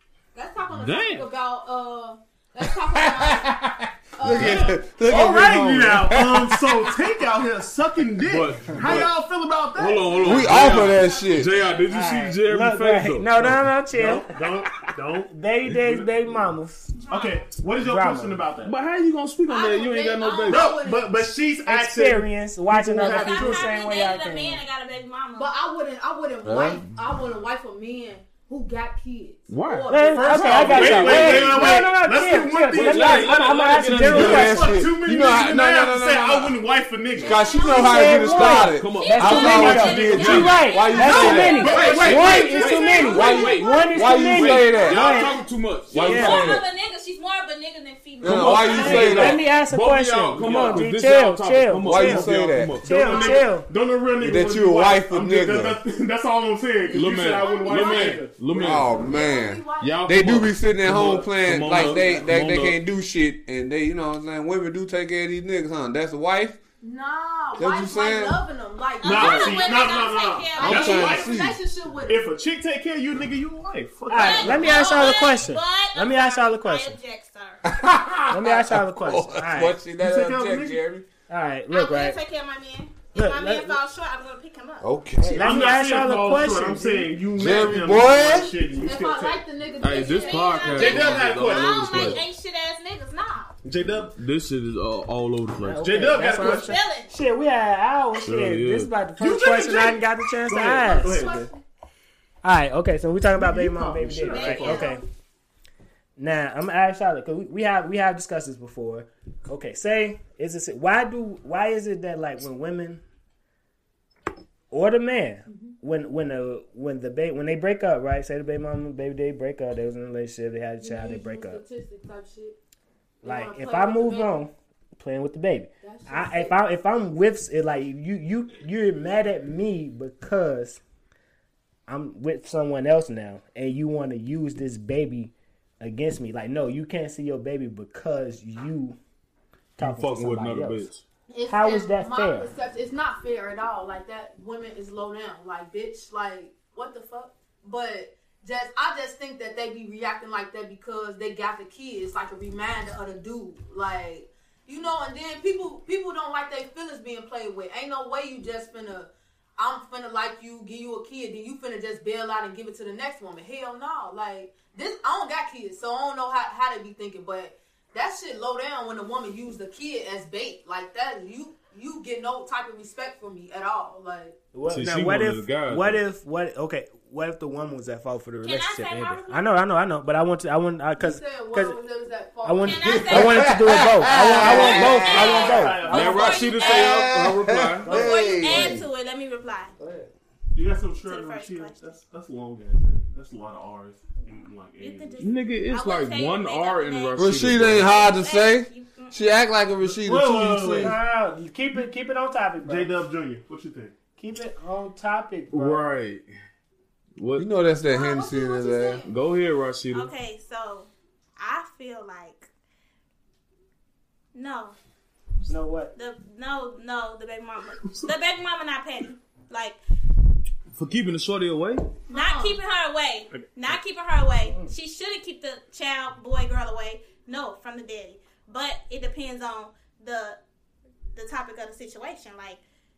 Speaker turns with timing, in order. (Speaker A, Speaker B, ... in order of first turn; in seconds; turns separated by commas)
Speaker A: 0.3-3.5, Speaker B: 0.7-1.3, Speaker C: 2.8-7.0, Speaker A: 4.2-4.9, Speaker B: 4.3-4.7, Speaker D: 5.0-10.7, Speaker B: 8.2-9.1, Speaker B: 9.8-13.7, Speaker C: 10.2-11.5, Speaker A: 10.3-11.9, Speaker E: 10.8-11.4, Speaker F: 11.9-14.3, Speaker D: 13.9-16.5, Speaker F: 15.3-16.9, Speaker D: 17.1-18.8, Speaker A: 17.1-17.4, Speaker F: 17.8-18.4, Speaker B: 18.6-20.8, Speaker A: 19.5-21.2, Speaker D: 20.5-23.7, Speaker F: 21.7-24.6, Speaker E: 23.0-25.5, Speaker A: 25.4-31.2, Speaker C: 26.4-26.8, Speaker B: 29.5-31.7, Speaker F: 29.9-34.7, Speaker D: 30.0-37.5, Speaker C: 30.9-31.4, Speaker B: 32.7-34.7, Speaker C: 34.0-36.6, Speaker C: 37.2-42.4, Speaker A: 37.2-38.4, Speaker E: 37.2-43.6, Speaker F: 37.7-45.4, Speaker B: 38.5-46.5, Speaker D: 41.2-42.8, Speaker C: 43.0-45.0, Speaker C: 45.9-46.6, Speaker E: 46.0-49.4, Speaker F: 46.0-46.4, Speaker C: 48.2-49.4, Speaker B: 48.2-53.2, Speaker F: 48.7-52.3, Speaker D: 50.4-50.8, Speaker C: 51.8-52.8, Speaker F: 52.8-53.7, Speaker D: 52.8-59.1, Speaker A: 53.1-53.4, Speaker C: 54.2-55.8, Speaker B: 56.9-59.0, Speaker A: 56.9-58.3, Speaker E: 57.5-58.2, Speaker C: 58.5-66.6, Speaker A: 58.8-60.1, Speaker B: 59.8-62.8, Speaker D: 60.9-62.2, Speaker A: 66.8-70.0, Speaker C: 67.6-68.4, Speaker E: 69.0-71.1, Speaker D: 69.0-71.5, Speaker A: 70.5-72.3, Speaker C: 70.6-71.6, Speaker D: 72.1-75.2, Speaker F: 74.1-77.0, Speaker E: 74.2-77.6, Speaker C: 77.7-81.1, Speaker F: 78.3-79.8, Speaker D: 80.0-80.8, Speaker F: 81.3-82.2, Speaker E: 81.7-84.9, Speaker F: 83.1-83.8, Speaker C: 84.8-85.5, Speaker F: 85.2-87.1, Speaker D: 85.4-89.4, Speaker C: 87.4-88.5, Speaker A: 88.8-91.0, Speaker B: 89.8-92.2, Speaker E: 89.9-93.5, Speaker D: 90.7-92.2, Speaker D: 93.6-94.1, Speaker B: 94.1-96.1, Speaker F: 95.6-101.2, Speaker D: 95.8-96.8, Speaker E: 96.4-97.1, Speaker B: 98.2-99.0, Speaker D: 99.2-101.5, Speaker A: 100.8-101.6, Speaker F: 102.4-105.0, Speaker D: 103.3-104.9, Speaker E: 104.3-105.0, Speaker A: 104.4-104.8, Speaker F: 106.2-113.0, Speaker F: 114.7-121.6, Speaker A: 120.8-122.6, Speaker A: 123.2-124.5, Speaker F: 123.2-130.8, Speaker A: 125.8-126.6, Speaker F: 131.9-139.0, Speaker F: 139.8-140.9, Speaker B: 139.8-141.0, Speaker A: 141.3-174.4, Speaker F: 141.5-142.5, Speaker F: 174.5-181.8, Speaker B: 174.7-176.0, Speaker E: 178.4-179.4, Speaker A: 181.0-183.4, Speaker F: 182.4-186.5, Speaker E: 182.6-187.1, Speaker C: 182.8-185.6, Speaker D: 184.4-186.6, Speaker B: 185.9-188.1, Speaker C: 186.6-188.9, Speaker F: 187.8-188.8, Speaker E: 187.9-189.8, Speaker C: 189.8-190.1, Speaker D: 190.5-195.3, Speaker E: 191.1-191.8, Speaker E: 194.8-199.2, Speaker B: 195.2-198.0, Speaker C: 197.2-201.0, Speaker D: 199.9-201.0, Speaker F: 200.8-202.9, Speaker D: 202.6-203.9, Speaker F: 204.2-205.8, Speaker B: 205.5-206.3, Speaker B: 207.2-207.5, Speaker C: 207.4-209.0, Speaker A: 207.9-209.1, Speaker B: 209.1-210.1, Speaker E: 209.9-212.5, Speaker E: 214.3-214.8, Speaker F: 215.5-215.9, Speaker E: 215.9-219.8, Speaker D: 217.8-218.1, Speaker B: 220.8-221.8, Speaker A: 222.1-222.6, Speaker E: 222.1-230.4, Speaker F: 224.5-224.7, Speaker E: 231.1-232.6